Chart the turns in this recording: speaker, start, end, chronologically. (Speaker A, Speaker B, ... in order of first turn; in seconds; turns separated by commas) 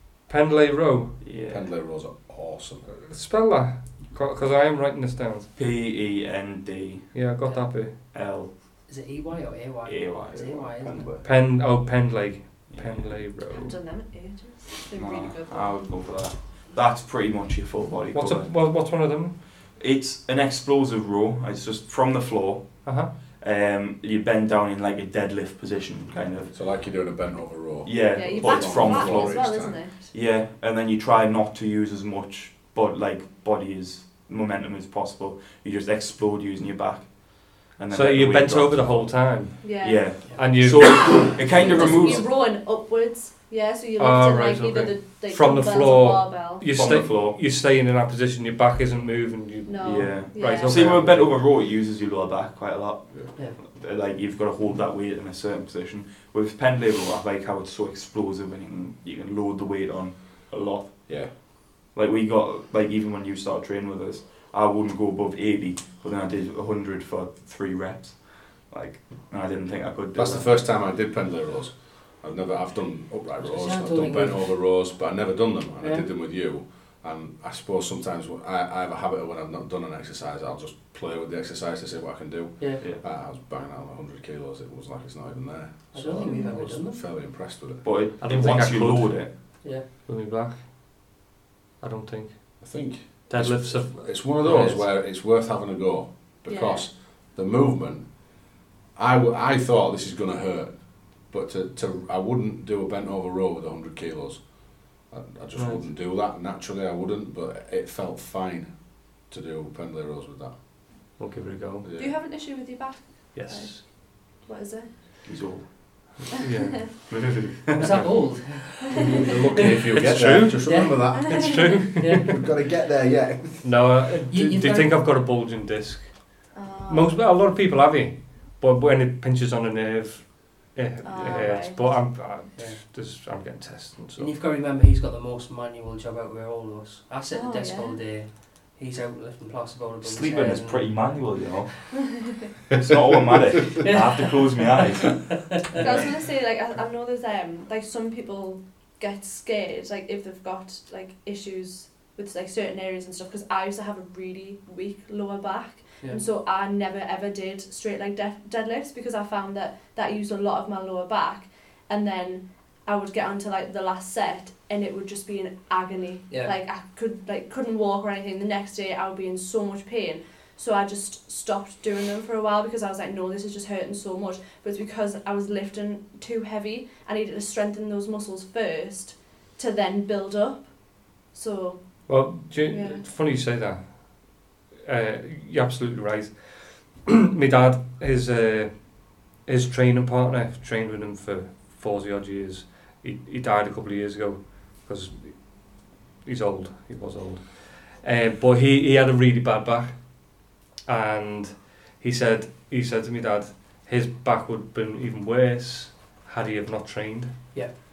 Speaker A: 0.3-1.2, Speaker B: 1.2-1.7, Speaker C: 1.4-3.1, Speaker A: 3.0-5.5, Speaker B: 5.5-7.2, Speaker A: 7.1-8.1, Speaker B: 7.8-8.5, Speaker D: 8.8-11.2, Speaker B: 9.8-11.1, Speaker C: 10.3-11.2, Speaker A: 11.2-13.8, Speaker B: 12.7-13.3, Speaker E: 13.5-15.8, Speaker B: 14.9-18.5, Speaker A: 18.1-19.4, Speaker B: 19.6-26.5, Speaker A: 22.8-23.1, Speaker C: 26.5-29.8, Speaker B: 27.8-42.3, Speaker E: 28.1-30.0, Speaker A: 37.9-39.8, Speaker E: 39.6-40.1, Speaker A: 40.4-42.2, Speaker E: 41.6-46.6, Speaker A: 44.0-51.4, Speaker B: 46.7-47.4, Speaker E: 49.6-51.2, Speaker B: 49.8-61.4, Speaker B: 61.9-70.6, Speaker C: 70.1-87.8, Speaker D: 73.4-74.6, Speaker D: 75.8-76.0, Speaker D: 85.9-87.0, Speaker E: 86.2-86.6, Speaker B: 87.8-89.3, Speaker A: 88.2-90.6, Speaker A: 91.8-92.7, Speaker C: 92.6-98.4, Speaker A: 93.3-94.9, Speaker E: 96.5-96.9, Speaker C: 98.9-110.5, Speaker A: 105.5-105.9, Speaker A: 111.2-111.9, Speaker C: 111.8-112.2, Speaker E: 112.0-114.9, Speaker A: 113.3-113.8, Speaker B: 115.2-116.2, Speaker A: 116.2-118.7, Speaker B: 117.0-118.0, Speaker D: 117.8-119.8, Speaker C: 118.9-123.9, Speaker A: 119.9-122.4, Speaker D: 120.6-121.3, Speaker E: 121.6-121.8, Speaker D: 122.0-122.3, Speaker A: 123.6-134.3, Speaker D: 124.3-125.0, Speaker E: 126.5-127.2, Speaker E: 131.0-131.8, Speaker C: 131.1-131.5, Speaker D: 132.6-132.8, Speaker D: 134.2-141.5, Speaker E: 137.3-138.0, Speaker B: 140.0-141.9, Speaker B: 142.7-145.7, Speaker D: 143.8-144.4, Speaker D: 145.0-146.0, Speaker E: 145.8-183.1, Speaker A: 182.1-207.8